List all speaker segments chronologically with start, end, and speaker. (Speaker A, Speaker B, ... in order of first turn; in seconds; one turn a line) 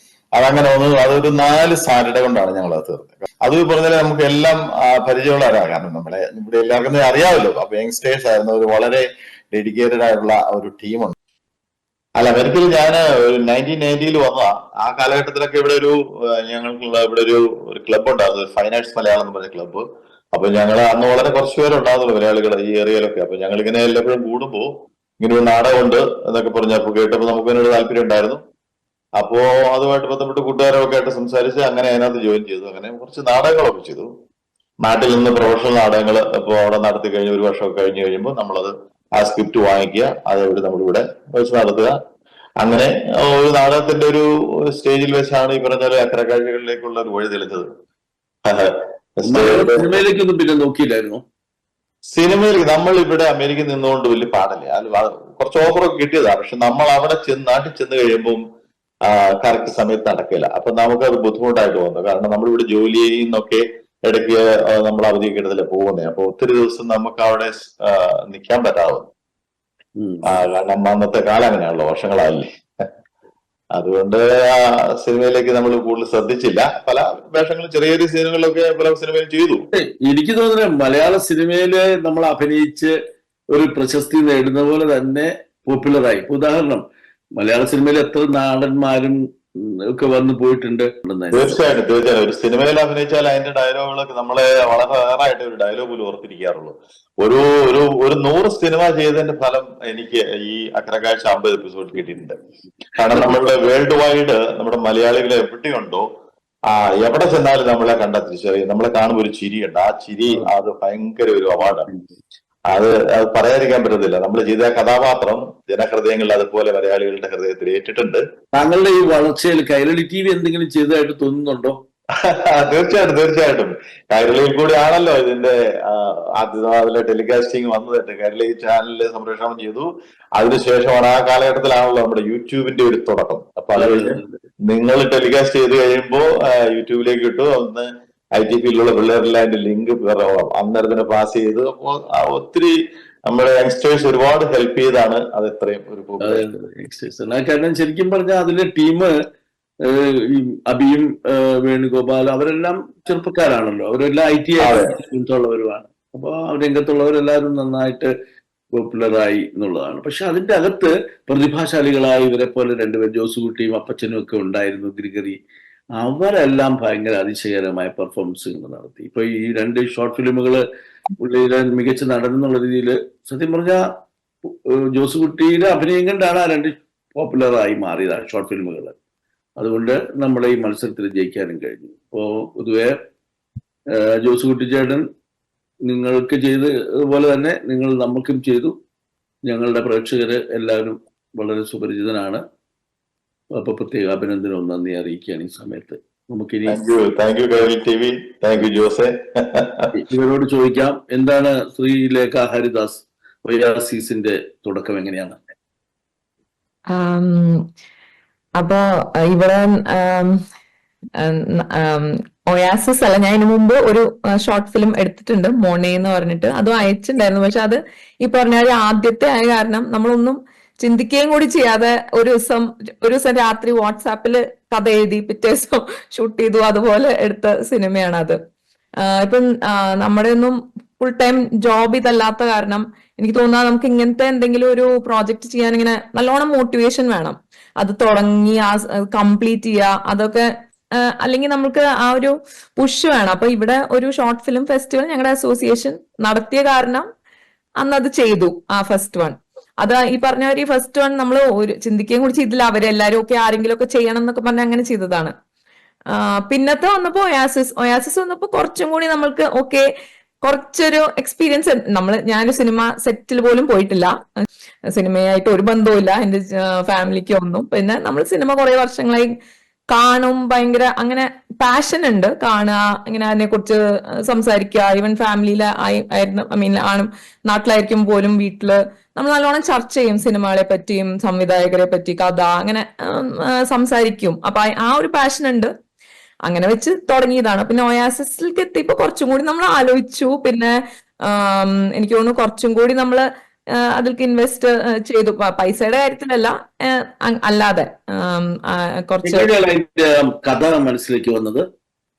Speaker A: 0.3-11.1
Speaker A: 12.2-28.4
Speaker A: 29.2-34.1
Speaker A: 34.8-41.9
Speaker A: 42.6-47.6
Speaker A: 48.4-49.9
Speaker B: 49.2-51.2
Speaker A: 52.1-58.4
Speaker A: 59.1-69.1
Speaker B: 70.0-70.2
Speaker A: 70.2-72.8
Speaker A: 73.8-79.7
Speaker B: 79.7-82.9
Speaker B: 83.5-86.8
Speaker B: 87.4-89.2
Speaker B: 89.9-91.6
Speaker A: 91.3-102.3
Speaker A: 103.0-106.0
Speaker B: 103.1-103.4
Speaker A: 106.7-111.9
Speaker B: 111.8-112.1
Speaker A: 112.7-118.2
Speaker B: 118.5-121.8
Speaker A: 122.2-142.8
Speaker B: 133.8-134.4
Speaker A: 143.3-146.4
Speaker B: 146.2-149.1
Speaker B: 149.9-158.1
Speaker A: 154.6-154.9
Speaker B: 158.8-165.4
Speaker B: 165.9-170.6
Speaker B: 171.2-173.8
Speaker B: 174.4-178.9
Speaker B: 179.6-182.9
Speaker B: 184.0-185.0
Speaker B: 185.9-188.7
Speaker B: 189.4-192.4
Speaker B: 193.6-196.9
Speaker A: 196.7-199.9
Speaker B: 199.9-205.4
Speaker C: 206.9-207.6
Speaker C: 208.6-210.4
Speaker C: 211.2-228.4
Speaker C: 229.0-247.1
Speaker C: 247.8-255.3
Speaker C: 256.1-259.9
Speaker C: 260.4-264.1
Speaker C: 264.9-269.3
Speaker C: 269.9-285.7
Speaker C: 286.4-293.2
Speaker C: 293.9-299.5
Speaker B: 299.2-301.6